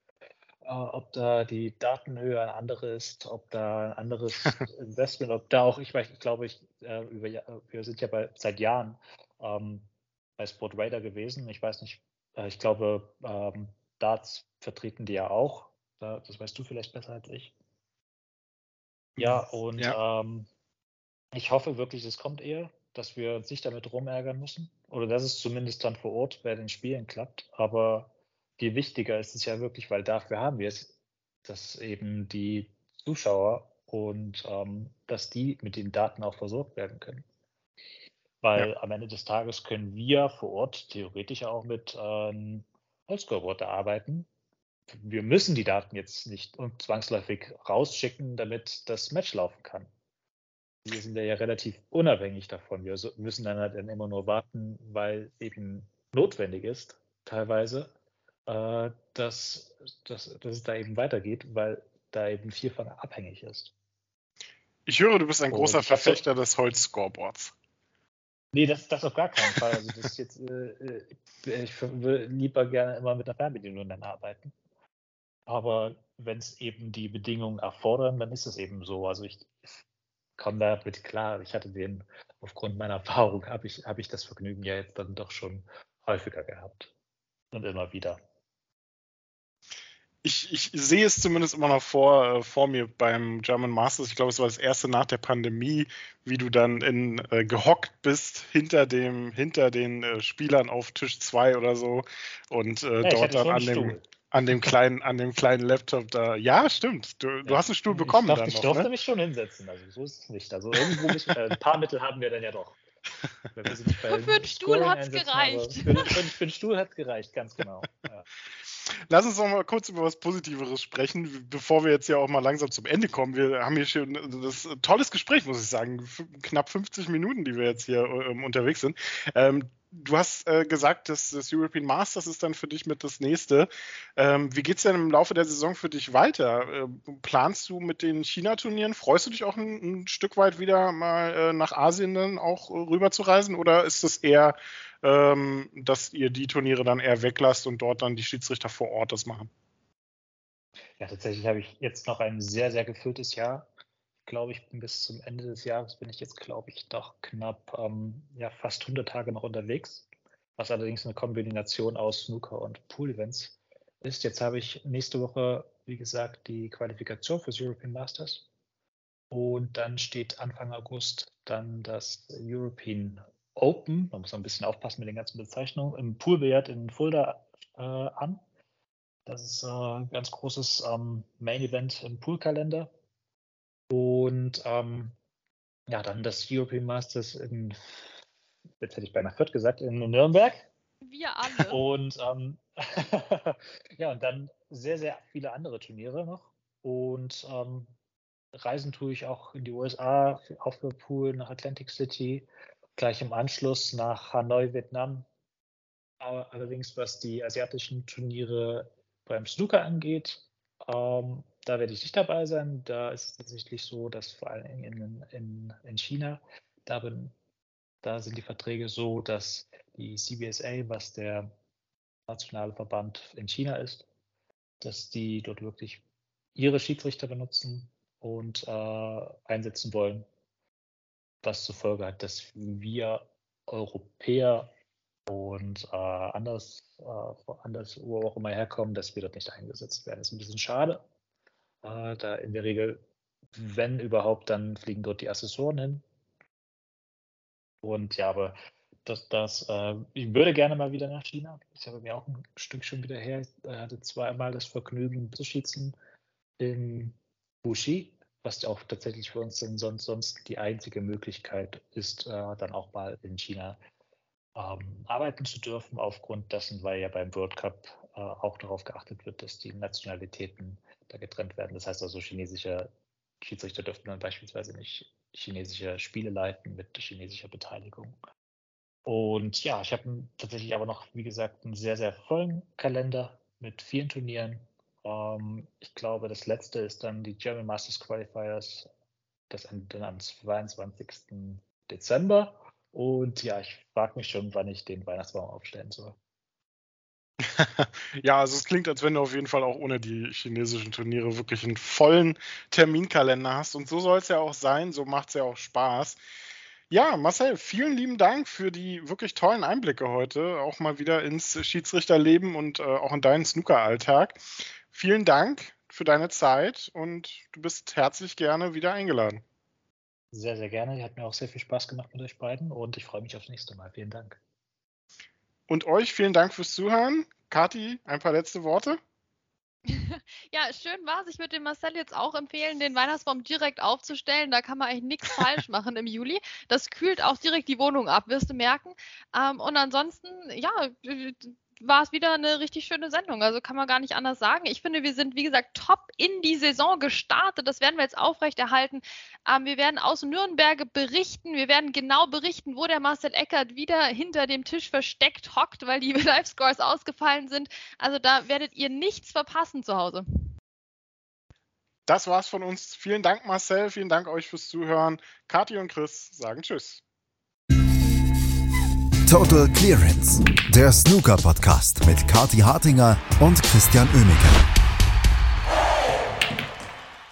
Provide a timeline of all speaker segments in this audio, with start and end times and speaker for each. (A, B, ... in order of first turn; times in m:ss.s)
0:00.6-0:09.9 A
0:10.4-0:17.5 A
0:19.2-0:20.5 A
0:19.2-0:20.0 B
0:21.3-0:30.9 A
0:31.4-0:37.2 A
0:38.4-0:44.3 A
0:44.9-0:49.9 A
0:50.8-0:57.9 A
0:58.5-1:03.7 A
1:04.9-1:07.5 B
1:05.5-1:06.2 A
1:08.5-1:14.5 A
1:15.5-1:19.8 A
1:20.4-1:26.9 A
1:27.5-1:28.2 A
1:30.2-1:48.9 B
1:43.0-1:44.0 A
1:47.4-1:52.8 A
1:53.5-1:58.3 A
1:54.0-1:56.1 C
1:59.1-2:29.5 B
2:31.0-2:33.7 A
2:34.2-2:40.1 A
2:40.6-2:48.5 A
2:49.3-2:58.4 A
2:59.3-3:02.9 A
3:03.9-3:05.2 A
3:05.9-3:08.1 A
3:08.8-3:10.7 A
3:11.0-3:11.8 C
3:11.5-3:17.9 A
3:18.5-3:25.3 A
3:26.2-3:37.3 A
3:38.0-3:41.5 A
3:42.3-3:44.1 A
3:44.8-3:46.0 A
3:46.6-3:50.3 A
3:51.4-3:54.7 A
3:55.3-4:01.0 A
4:01.8-4:03.0 A
4:03.5-4:06.0 A
4:07.8-4:16.0 A
4:16.6-4:23.8 A
4:24.6-4:32.9 A
4:33.4-4:38.2 A
4:39.0-4:48.9 A
4:49.5-4:56.2 A
4:57.4-5:06.2 B
5:06.9-5:14.4 B
5:14.9-5:19.4 B
5:20.3-5:24.4 A
5:25.7-5:29.0 B
5:29.9-6:00.2 C
6:02.1-6:07.0 B
6:09.3-6:14.7 D